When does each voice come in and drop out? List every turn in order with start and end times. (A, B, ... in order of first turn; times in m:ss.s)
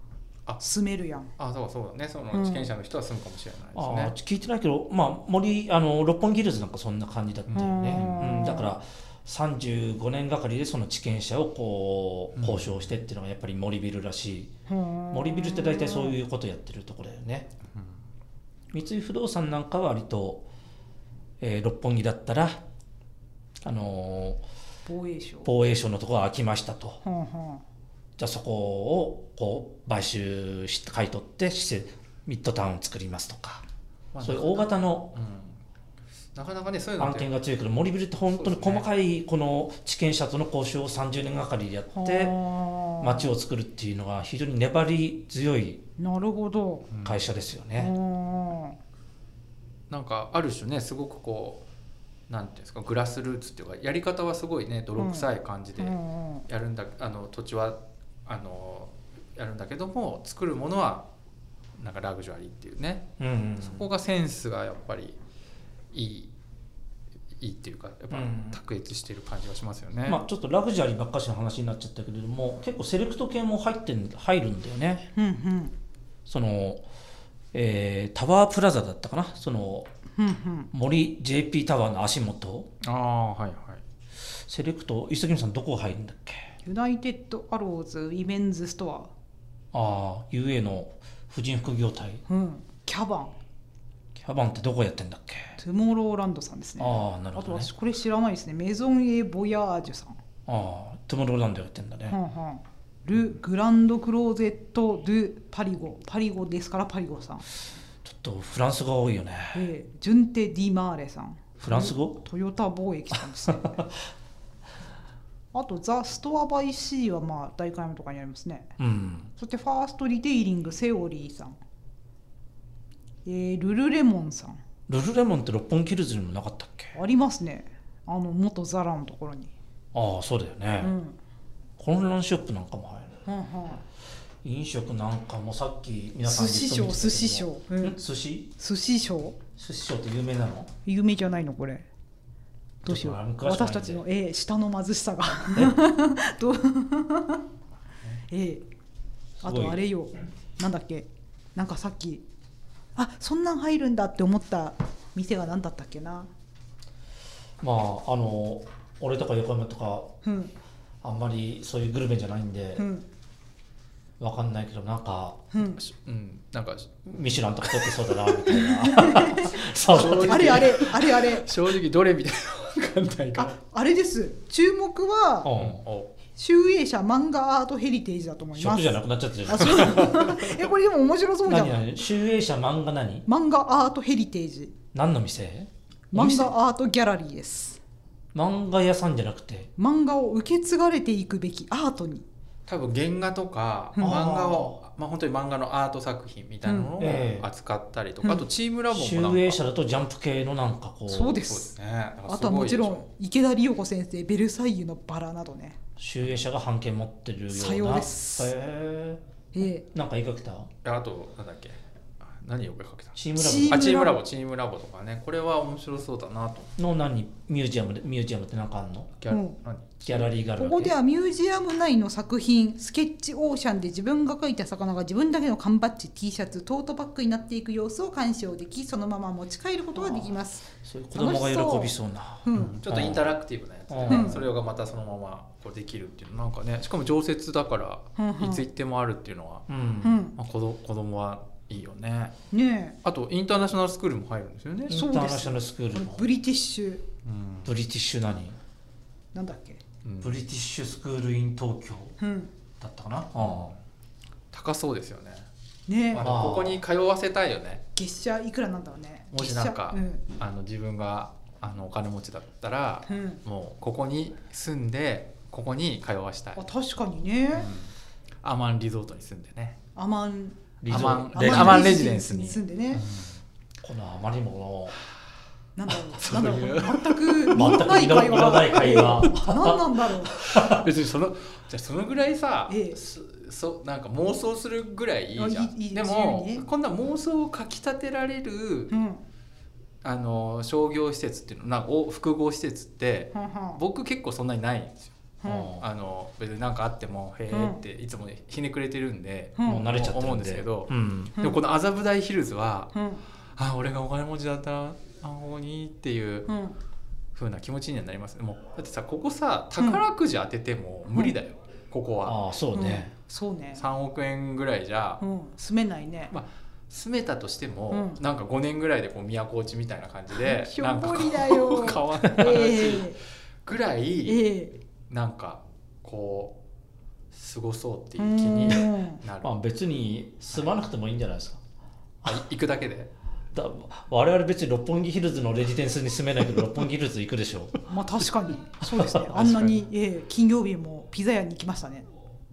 0:00.6-0:01.3 A
0:01.4-0:04.1 B
0:02.3-0:02.7 A
0:03.8-0:14.5 C
0:07.5-0:08.5 B
0:07.5-0:08.7 A
0:12.3-0:12.9 B
0:14.7-0:16.2 A
0:15.1-0:17.5 C
0:18.7-0:20.5 C
0:21.4-0:22.6 C
0:23.6-0:24.4 C
0:24.8-0:25.5 A
0:25.4-0:27.0 C
0:27.0-0:27.6 A
0:28.2-0:33.6 C
0:34.1-0:35.6 B
0:34.2-0:35.1 C
0:36.3-0:37.3 B
0:37.0-0:42.4 C
0:38.3-0:38.9 B
0:41.9-0:43.3 A
0:43.0-0:45.8 C
0:46.0-0:46.9 A
0:46.9-0:47.2 B
0:47.0-0:47.9 C
0:47.8-0:48.8 A
0:49.9-0:51.7 B
0:52.3-1:01.1 B
0:55.0-0:56.5 A
1:01.8-1:05.2 B
1:03.2-1:03.9 C
1:05.9-1:06.3 B
1:07.4-1:10.2 B
1:08.1-1:08.6 C
1:10.0-1:15.1 C
1:15.2-1:15.8 A
1:16.2-1:16.8 C
1:17.5-1:19.9 C
1:20.2-1:20.7 A
1:20.7-1:22.7 C
1:22.8-1:23.8 B
1:24.3-1:26.5 C
1:26.6-1:29.1 A
1:29.7-1:32.2 C
1:32.3-1:33.3 A
1:34.2-1:35.6 C
1:35.6-1:40.2 A
1:36.8-1:37.7 C
1:40.5-1:42.2 C
1:42.1-1:47.4 A
1:48.0-1:49.7 C
1:49.5-1:53.8 A
1:51.6-1:52.2 C
1:53.3-1:54.0 C
1:55.5-1:58.8 A
1:58.8-1:59.3 C
1:59.4-2:01.6 A
2:03.2-2:04.6 A
2:04.9-2:07.0 C
2:07.0-2:09.5 A
2:09.9-2:11.0 C
2:10.8-2:11.2 A
2:11.8-2:13.2 C
2:13.2-2:13.8 A
2:14.4-2:18.5 C
2:16.2-2:18.0 A
2:18.6-2:19.4 A
2:19.6-2:20.7 C
2:20.8-2:21.9 A
2:22.8-2:27.4 A
2:22.8-2:24.0 C
2:28.3-2:28.6 A
2:29.4-2:29.8 C
2:29.4-2:32.2 A
2:33.0-2:36.3 A
2:37.6-2:40.2 C
2:40.2-2:40.5 A
2:41.0-2:42.9 C
2:42.8-2:43.0 A
2:44.2-2:45.4 C
2:45.5-2:45.8 A
2:45.8-2:47.0 B
2:47.0-2:50.9 C
2:47.8-2:48.6 B
2:48.5-2:51.5 A
2:49.8-2:53.5 B
2:53.4-2:55.5 A
2:55.4-2:55.8 C
2:55.5-2:56.1 B
2:56.3-3:01.9 A
2:58.6-3:00.4 C
2:59.8-3:00.2 B
3:01.5-3:03.2 C
3:03.3-3:04.8 A
3:04.9-3:06.5 C
3:06.1-3:07.8 A
3:08.3-3:09.7 C
3:09.8-3:12.2 A
3:12.7-3:19.6 B
3:14.0-3:14.2 A
3:14.0-3:14.8 C
3:16.6-3:17.2 A
3:17.0-3:17.5 C
3:18.9-3:21.4 C
3:21.1-3:21.7 A
3:21.4-3:23.1 B
3:22.3-3:25.8 A
3:26.0-3:29.2 C
3:27.5-3:28.5 A
3:29.5-3:29.8 A
3:29.9-3:30.7 C
3:30.8-3:36.7 B
3:33.2-3:34.0 C
3:33.4-3:34.2 A
3:36.8-3:39.2 C
3:39.2-3:40.3 B
3:39.3-3:39.6 A
3:40.0-3:40.9 C
3:40.6-3:52.8 A
3:50.0-3:53.3 C
3:52.5-3:59.7 B
3:53.9-3:54.4 C
3:54.0-3:54.4 A
3:58.2-3:58.7 A
3:59.7-4:00.2 C
4:00.0-4:00.4 A
4:00.4-4:02.3 B
4:02.5-4:03.0 A
4:03.0-4:05.0 B
4:04.9-4:06.2 C
4:04.9-4:07.0 A
4:07.2-4:07.7 B
4:07.6-4:08.6 C
4:09.3-4:09.8 A
4:10.0-4:10.4 B
4:10.2-4:12.2 C
4:12.2-4:12.5 A
4:12.8-4:13.8 C
4:14.5-4:15.5 B
4:15.9-4:16.3 A
4:16.1-4:17.8 B
4:16.2-4:16.8 C
4:18.0-4:20.2 A
4:19.3-4:26.6 B
4:23.1-4:23.4 A
4:26.5-4:27.7 A
4:27.5-4:29.8 B
4:30.0-4:33.1 A
4:30.8-4:32.0 C
4:30.9-4:33.4 B
4:33.8-4:35.0 C
4:35.8-4:40.4 A
4:36.1-4:37.7 B
4:37.5-4:40.8 C
4:39.0-4:39.3 B
4:40.4-4:49.0 B
4:42.7-4:43.0 A
4:45.4-4:46.7 A
4:48.9-4:49.2 A
4:50.0-4:55.1 B
4:53.3-4:53.8 A
4:55.4-4:55.7 A
4:55.4-4:55.8 C
4:55.8-5:03.0 B
4:57.5-4:57.8 A
4:59.6-4:59.9 A
4:59.6-5:01.4 C
5:02.9-5:03.2 A
5:03.5-5:06.5 B
5:06.5-5:06.8 A
5:07.3-5:12.4 B
5:09.8-5:10.0 A
5:12.2-5:13.1 C
5:12.7-5:13.9 A
5:13.7-5:15.2 B
5:15.2-5:16.3 A
5:16.3-5:24.5 B
5:17.9-5:18.2 A
5:20.3-5:23.2 A
5:24.2-5:24.8 A
5:25.1-5:26.6 B
5:27.3-5:29.6 B
5:28.2-5:29.2 A
5:29.4-5:31.6 C
5:32.2-5:33.1 B
5:33.5-5:37.8 C
5:37.9-5:42.0 A
5:38.8-5:39.3 C
5:39.3-5:39.8 B